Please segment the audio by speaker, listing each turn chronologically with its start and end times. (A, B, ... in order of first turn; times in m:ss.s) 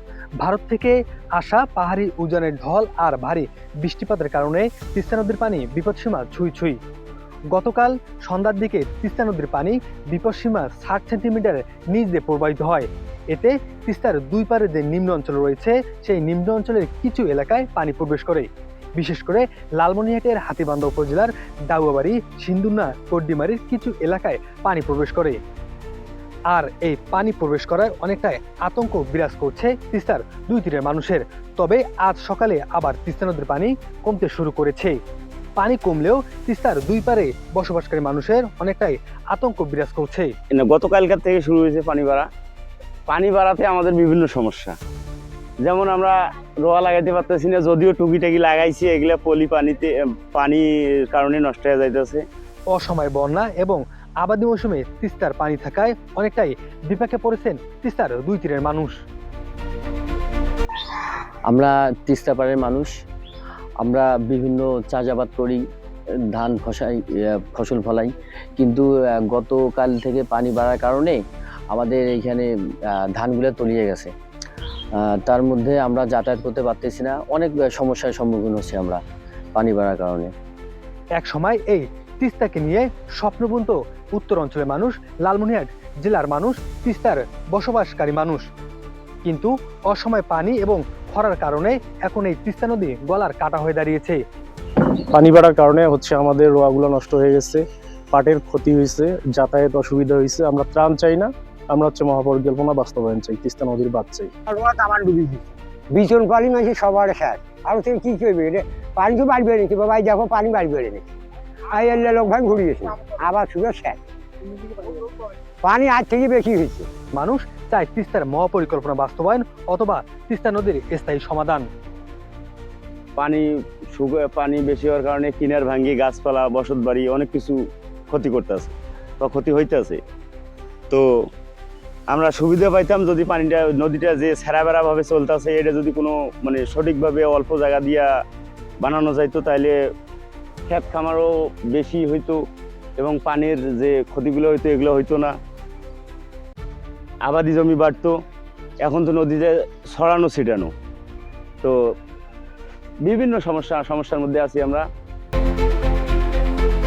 0:00.4-0:06.8 A
0:07.5-0:25.4 A
0:26.5-0:35.0 A
0:35.6-0:40.3 A
0:40.5-0:42.3 B
0:43.1-0:44.7 B
0:45.6-0:52.2 B
0:52.7-0:59.0 A
1:01.5-1:02.9 C
1:03.8-1:05.6 C
1:06.3-1:11.2 C
1:11.7-1:12.5 C
1:13.1-1:14.1 C
1:15.0-1:19.0 C
1:19.6-1:20.3 C
1:21.2-1:28.4 A
1:29.2-1:34.2 A
1:35.1-1:44.3 D
1:44.5-1:51.1 E
1:51.7-1:54.0 E
1:54.6-1:55.0 E
1:55.6-1:56.9 E
1:57.2-2:01.6 A
2:03.2-2:07.6 B
2:08.1-2:10.0 B
2:12.1-2:18.1 B
2:18.8-2:19.8 B
2:20.7-2:22.4 B
2:23.0-2:25.3 B
2:27.2-2:28.1 B
2:28.8-2:30.7 B
2:33.0-2:34.8 B